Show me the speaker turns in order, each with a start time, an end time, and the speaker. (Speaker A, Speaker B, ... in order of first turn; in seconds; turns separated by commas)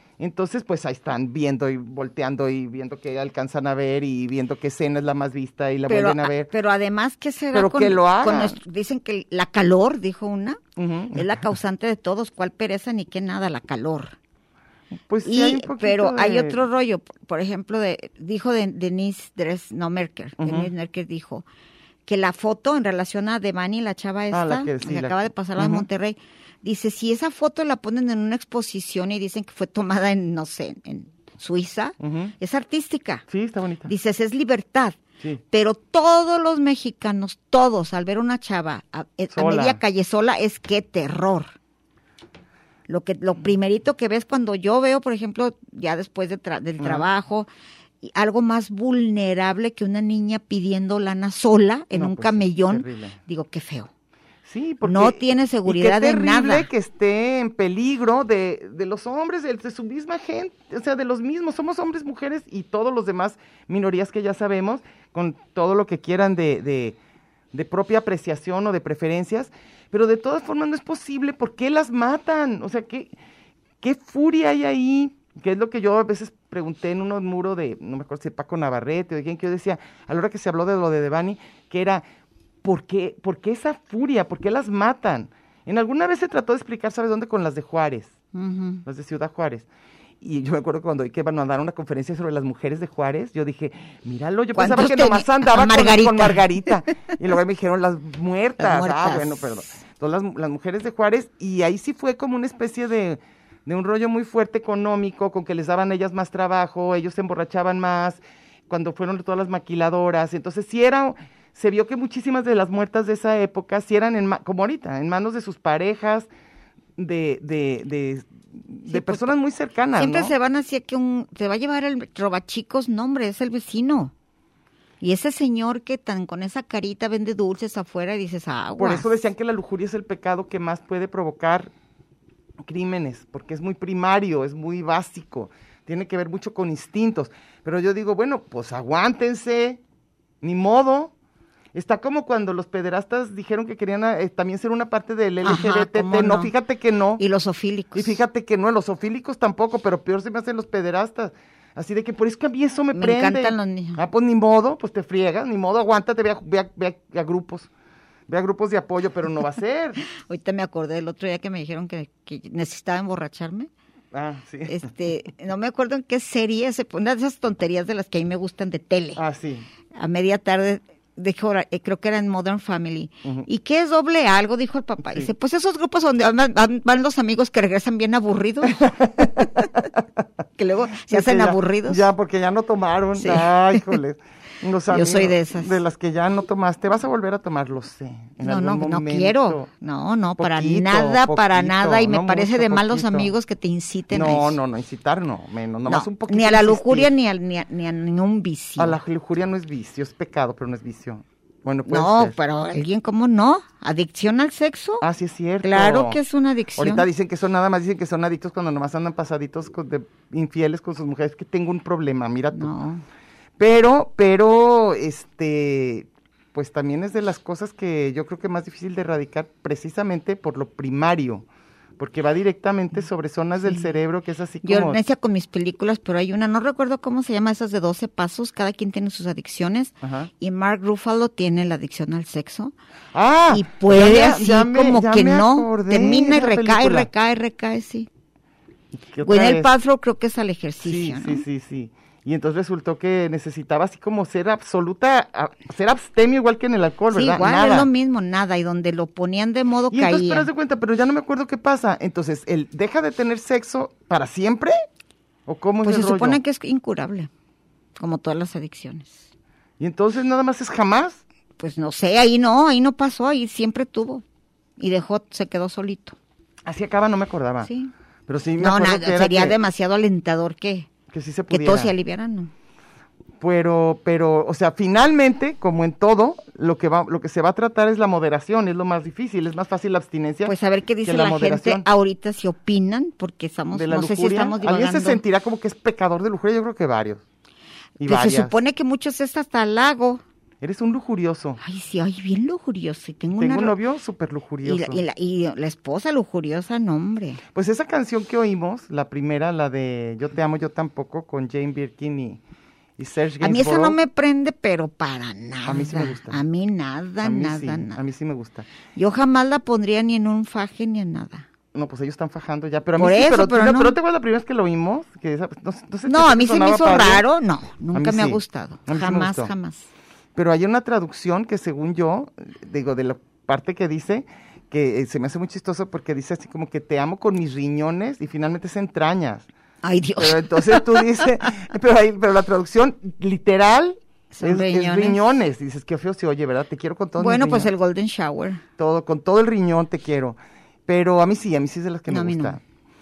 Speaker A: 0.2-6.5, Speaker B: 5.9-10.6, Speaker A: 7.5-8.6, Speaker A: 10.8-11.5, Speaker B: 11.1-14.2, Speaker A: 15.0-16.6, Speaker B: 15.2-21.5, Speaker A: 20.4-20.7, Speaker B: 22.1-33.2, Speaker A: 24.3-25.9, Speaker A: 32.0-32.3, Speaker A: 33.3-33.9, Speaker B: 33.9-35.0, Speaker B: 35.5-41.5, Speaker A: 39.3-39.8, Speaker B: 42.9-47.5, Speaker A: 46.8-47.1, Speaker B: 48.0-53.9, Speaker A: 51.9-53.2, Speaker A: 54.5-67.0, Speaker B: 54.8-56.7, Speaker A: 67.5-73.2, Speaker A: 73.8-82.0, Speaker A: 82.6-88.1, Speaker B: 88.3-88.8, Speaker A: 88.8-89.7, Speaker A: 90.2-116.3, Speaker B: 94.5-96.7, Speaker B: 98.6-99.6, Speaker A: 117.0-120.3, Speaker B: 118.9-119.3, Speaker B: 120.0-124.1, Speaker B: 125.0-129.1, Speaker A: 128.8-131.7, Speaker A: 132.6-139.8, Speaker A: 140.4-141.1, Speaker A: 141.7-147.2, Speaker B: 145.4-146.5, Speaker B: 147.2-148.2, Speaker A: 147.9-157.7, Speaker B: 152.9-154.0, Speaker A: 158.3-160.0, Speaker B: 160.1-163.7, Speaker A: 164.1-164.9, Speaker B: 164.7-169.2, Speaker A: 169.2-169.7, Speaker B: 170.0-179.5, Speaker A: 175.0-175.3, Speaker A: 178.7-180.2, Speaker B: 180.6-182.1, Speaker A: 181.1-189.7, Speaker B: 183.2-183.8, Speaker B: 184.9-185.8, Speaker B: 188.4-194.6, Speaker A: 190.4-193.3, Speaker A: 194.1-197.1, Speaker B: 195.9-199.0, Speaker A: 198.8-202.3, Speaker B: 201.9-205.1, Speaker A: 205.0-206.2, Speaker B: 205.6-207.1, Speaker A: 206.8-212.7, Speaker B: 212.5-213.0, Speaker A: 213.6-221.5, Speaker A: 222.0-225.0, Speaker B: 224.6-232.7, Speaker A: 230.0-230.3, Speaker A: 233.1-237.1, Speaker B: 233.5-238.1, Speaker A: 238.9-239.7, Speaker B: 239.2-241.4, Speaker A: 240.8-247.9, Speaker B: 247.1-250.5, Speaker A: 249.9-254.8, Speaker A: 255.5-256.4, Speaker B: 255.8-257.3, Speaker B: 258.0-259.3, Speaker A: 259.8-261.2, Speaker B: 261.6-264.2, Speaker B: 264.8-266.2, Speaker A: 266.7-267.7, Speaker B: 267.6-267.9, Speaker A: 268.3-269.6, Speaker B: 268.6-270.9, Speaker A: 271.1-271.9, Speaker B: 271.5-272.5, Speaker A: 273.4-281.9, Speaker B: 280.4-285.2, Speaker A: 283.7-287.2, Speaker A: 288.0-288.6, Speaker B: 288.1-290.2, Speaker A: 290.6-291.6, Speaker B: 291.6-293.8, Speaker A: 293.4-295.0, Speaker B: 294.6-297.4, Speaker A: 297.5-302.4, Speaker A: 303.0-304.0, Speaker B: 303.4-308.0, Speaker A: 305.7-306.4, Speaker A: 307.2-308.7, Speaker B: 308.9-311.5, Speaker A: 311.7-317.2, Speaker B: 313.0-314.0, Speaker B: 316.1-319.9, Speaker A: 317.9-319.5, Speaker A: 320.4-329.5, Speaker B: 329.8-331.2, Speaker A: 330.2-337.7, Speaker B: 334.3-335.2, Speaker B: 337.2-338.6, Speaker A: 338.8-342.6, Speaker B: 342.1-342.6